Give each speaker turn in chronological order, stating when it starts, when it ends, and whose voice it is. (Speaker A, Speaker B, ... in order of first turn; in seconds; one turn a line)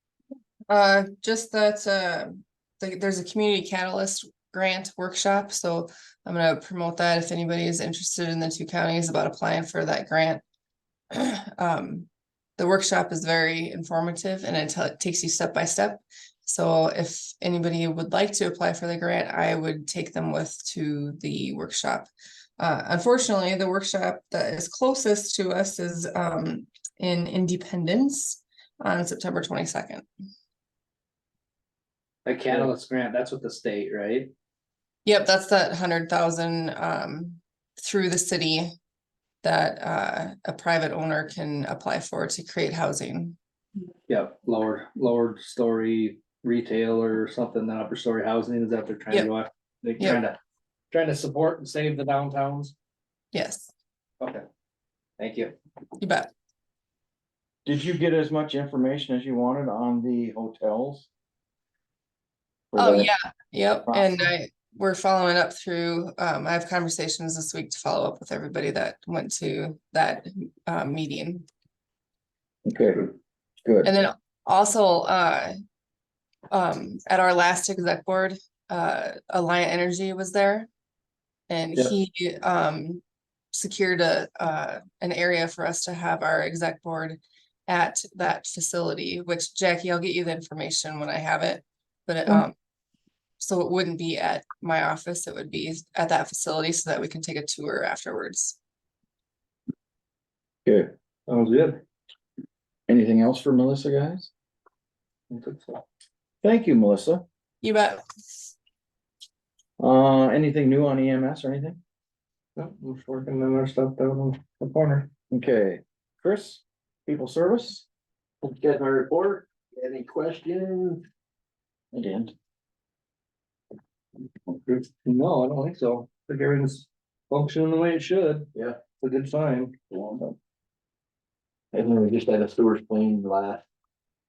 Speaker A: 0.7-10.4
Speaker A: 11.1-12.1
Speaker A: 12.6-30.1
Speaker B: 32.2-34.3
Speaker A: 35.0-38.7
Speaker A: 39.4-43.4
Speaker B: 44.1-50.4
Speaker B: 50.9-52.7
Speaker A: 53.3-53.7
Speaker B: 55.2-55.5
Speaker A: 56.0-56.3
Speaker C: 57.6-61.1
Speaker C: 62.7-63.1
Speaker A: 62.8-71.4
Speaker C: 63.9-64.3
Speaker C: 72.7-73.1
Speaker C: 73.6-73.9
Speaker A: 73.8-75.5
Speaker A: 76.5-80.7
Speaker A: 81.5-83.0
Speaker A: 83.5-92.5
Speaker A: 93.4-98.6
Speaker C: 100.6-100.9
Speaker B: 101.3-101.8
Speaker C: 102.9-104.3
Speaker B: 105.3-105.8
Speaker C: 106.4-107.2
Speaker A: 107.6-108.5
Speaker C: 109.8-111.8
Speaker B: 112.5-115.1
Speaker C: 115.3-117.8
Speaker D: 118.4-121.0
Speaker C: 121.9-122.3
Speaker B: 124.6-129.7
Speaker D: 131.7-133.6